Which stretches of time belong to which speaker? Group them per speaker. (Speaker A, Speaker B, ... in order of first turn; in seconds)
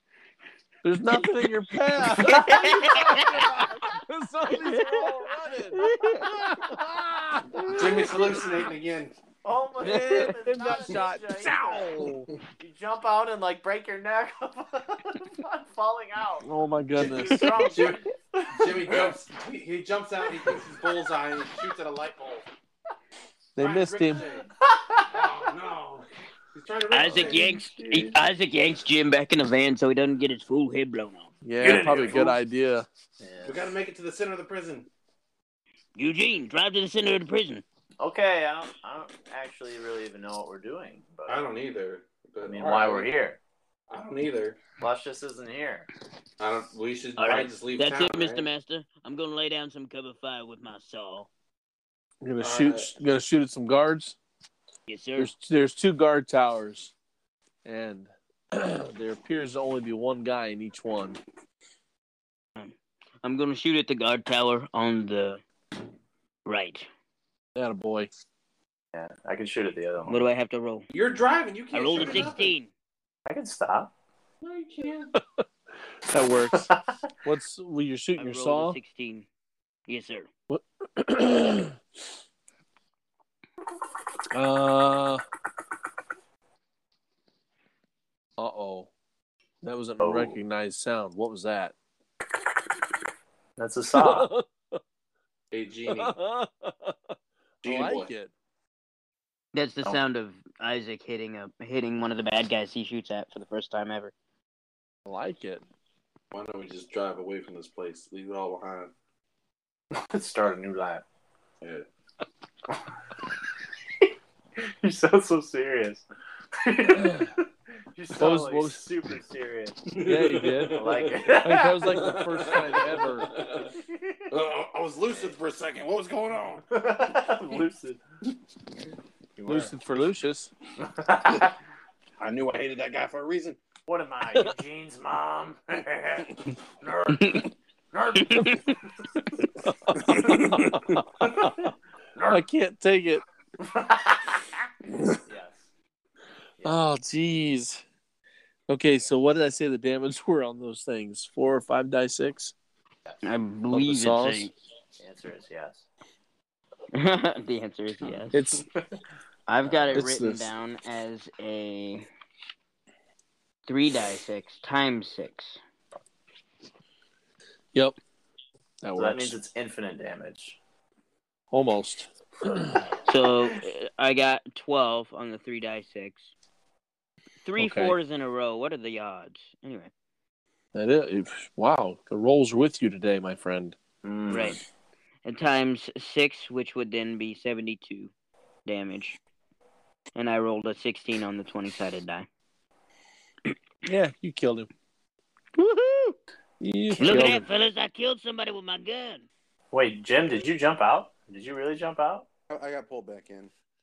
Speaker A: 0.8-8.1, 9.8-12.3, 16.4-17.9, 23.6-24.3, 31.4-32.9, 52.2-54.2, 55.2-56.9, 57.6-61.2, 67.5-68.1, 75.2-75.4, 76.1-76.7, 77.2-78.8, 80.5-81.8, 84.3-85.2, 88.4-88.9, 89.6-91.8, 93.9-94.8, 95.9-98.3, 105.1-105.7, 117.0-117.3, 118.2-118.9, 120.0-123.3, 129.5-130.5, 139.6-141.4, 142.2-143.2, 146.6-147.8, 148.7-152.5, 153.7-154.5, 158.3-158.7, 159.9-160.5, 168.8-169.4, 171.5-172.9, 177.6-177.9, 180.7-183.8, 193.8-194.7, 195.7-197.5
Speaker B: 2.3-3.1, 4.5-5.1, 5.7-6.6, 7.6-8.4, 9.4-12.0, 12.6-19.1, 20.3-20.6, 24.6-25.2, 27.1-28.2, 31.6-32.2, 33.2-33.6, 38.0-41.4, 42.4-43.4, 44.8-45.9, 68.9-70.2, 73.2-73.9, 76.5-77.0, 90.0-90.4, 93.6-94.3, 109.9-111.0, 114.0-116.0, 116.6-119.8, 120.7-124.3, 125.1-125.3, 126.7-128.0, 129.4-129.7, 130.8-131.6, 133.9-139.2, 140.1-140.4, 141.2-142.3, 143.6-144.5, 145.2-145.7, 155.0-155.9, 158.0-158.9, 159.6-160.0, 168.9-170.6, 184.0-184.6, 199.7-202.3
Speaker C: 2.4-3.1, 26.9-31.3, 36.0-37.6, 47.2-51.3, 54.9-55.3, 62.6-65.4, 66.5-66.9, 70.1-70.9, 71.7-72.7, 78.2-79.3, 79.9-80.3, 99.5-104.1, 137.2-137.5, 138.2-138.7, 153.2-154.5, 156.9-158.4, 159.5-162.1, 163.7-165.6, 173.1-176.3, 177.4-179.9, 184.3-184.6, 185.2-188.1, 188.7-189.2, 190.2-192.3, 197.0-199.3
Speaker D: 7.6-9.2, 16.9-22.5, 23.6-24.5, 25.1-27.4, 31.6-32.4, 33.5-34.9, 41.3-43.1, 43.9-44.6, 46.4-48.5, 52.4-52.9, 70.9-72.5, 74.4-75.1, 95.5-96.2, 97.6-98.1, 106.3-108.9, 119.9-123.7, 124.3-126.7, 132.2-133.6, 140.1-141.0, 202.5-203.5